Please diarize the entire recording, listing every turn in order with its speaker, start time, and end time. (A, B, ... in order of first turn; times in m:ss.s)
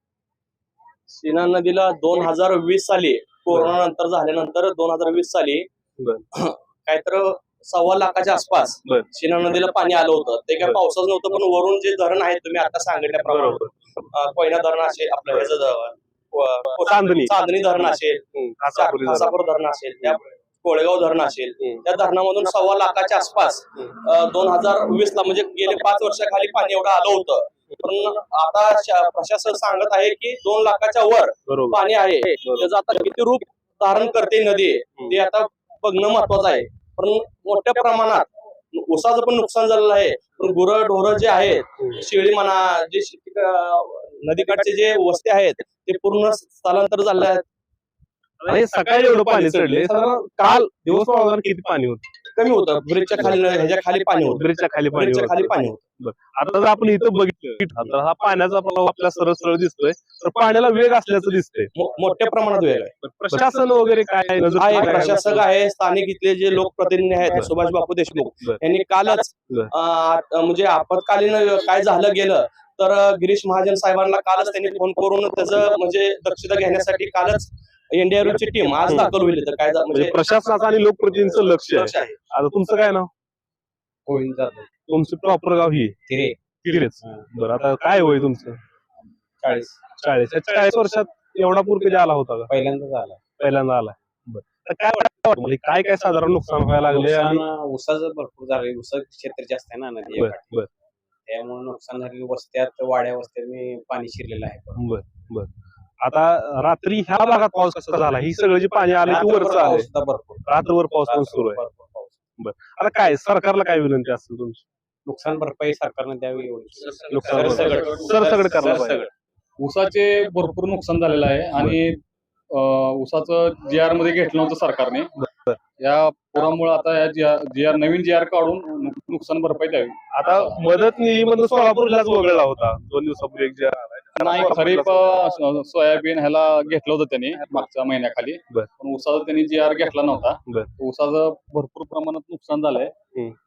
0:01.1-0:05.7 A
0:06.0-0:06.2 B
0:06.3-0:47.4 A
0:13.3-0:13.7 B
0:16.8-0:17.3 B
0:18.4-0:19.3 B
0:31.5-0:31.8 B
0:48.4-0:52.0 B
0:52.4-0:54.4 A
0:54.3-1:01.7 B
0:54.9-0:55.8 A
1:01.8-1:02.9 A
1:03.0-1:05.4 B
1:04.5-1:20.1 A
1:19.9-1:23.1 B
1:21.6-1:22.2 A
1:24.1-1:24.7 C
1:24.9-1:26.0 B
1:26.1-1:26.4 C
1:26.6-1:28.6 B
1:29.4-1:29.8 C
1:30.0-1:32.5 B
1:32.5-1:33.2 C
1:33.4-1:37.4 B
1:36.9-1:40.7 C
1:40.2-1:40.7 B
1:41.3-1:44.8 C
1:44.8-1:45.5 B
1:46.0-1:49.9 B
1:49.1-1:52.2 C
1:50.5-1:51.6 B
1:52.4-1:54.6 B
1:55.0-1:57.9 C
1:57.1-1:59.0 A
1:57.1-1:59.1 B
1:59.6-2:05.1 D
2:05.8-2:10.6 D
2:10.1-2:15.0 B
2:14.2-2:22.9 D